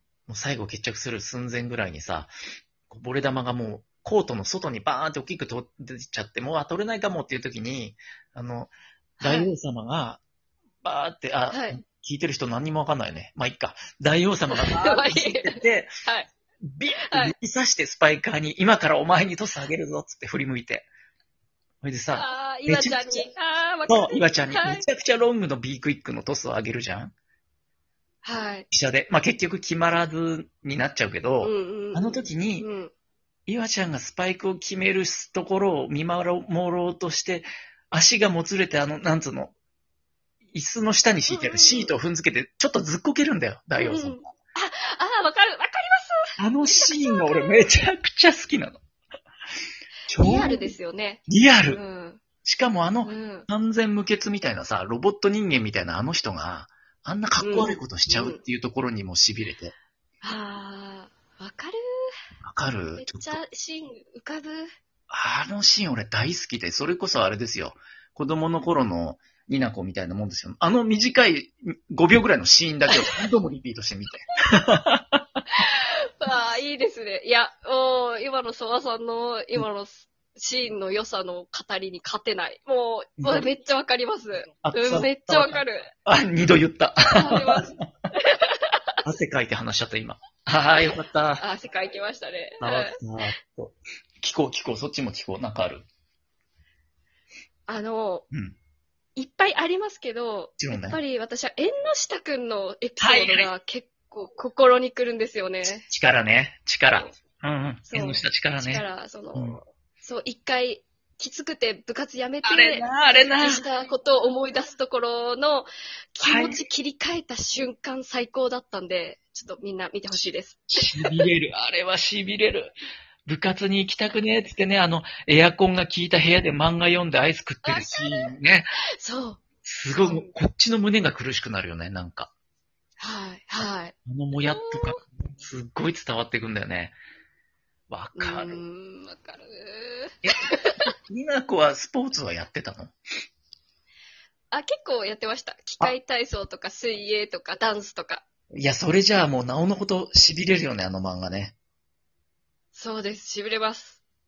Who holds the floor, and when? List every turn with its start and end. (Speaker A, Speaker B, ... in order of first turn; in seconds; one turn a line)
Speaker A: 0.3-2.3
Speaker A: 2.9-10.2
Speaker B: 9.2-9.5
Speaker A: 10.8-15.9
Speaker B: 11.5-11.8
Speaker B: 14.5-16.3
Speaker A: 16.6-20.9
Speaker B: 16.9-17.3
Speaker A: 21.8-23.3
Speaker B: 22.1-24.9
Speaker A: 23.9-27.1
Speaker B: 28.2-28.7
Speaker A: 28.7-32.7
Speaker B: 31.4-32.9
Speaker A: 33.5-39.5
Speaker A: 40.5-44.3
Speaker B: 41.3-41.9
Speaker B: 43.8-47.7
Speaker A: 46.4-48.8
Speaker A: 50.1-50.7
Speaker B: 50.2-52.2
Speaker A: 51.3-51.8
Speaker A: 52.4-59.7
Speaker B: 53.0-53.5
Speaker B: 57.4-58.4
Speaker B: 60.2-62.1
Speaker A: 62.4-63.4
Speaker B: 63.0-64.7
Speaker A: 65.1-75.2
Speaker B: 72.9-73.3
Speaker B: 75.6-85.9
Speaker A: 83.2-83.5
Speaker A: 84.6-87.8
Speaker B: 87.1-88.8
Speaker A: 89.0-91.4
Speaker B: 91.4-93.0
Speaker A: 92.6-95.8
Speaker B: 97.7-98.2
Speaker B: 99.2-105.9
Speaker A: 100.6-101.0
Speaker A: 103.0-103.5
Speaker A: 105.9-109.6
Speaker B: 107.9-121.3
Speaker A: 112.4-113.7
Speaker A: 116.2-116.6
Speaker A: 120.1-122.7
Speaker A: 123.2-128.7
Speaker B: 127.6-128.3
Speaker B: 129.0-129.4
Speaker A: 129.6-132.3
Speaker B: 130.0-130.3
Speaker B: 133.0-133.9
Speaker A: 134.1-136.9
Speaker B: 134.5-135.0
Speaker A: 137.9-138.6
Speaker B: 138.2-140.9
Speaker A: 140.2-142.9
Speaker B: 144.5-148.2
Speaker A: 148.5-151.5
Speaker B: 152.7-154.0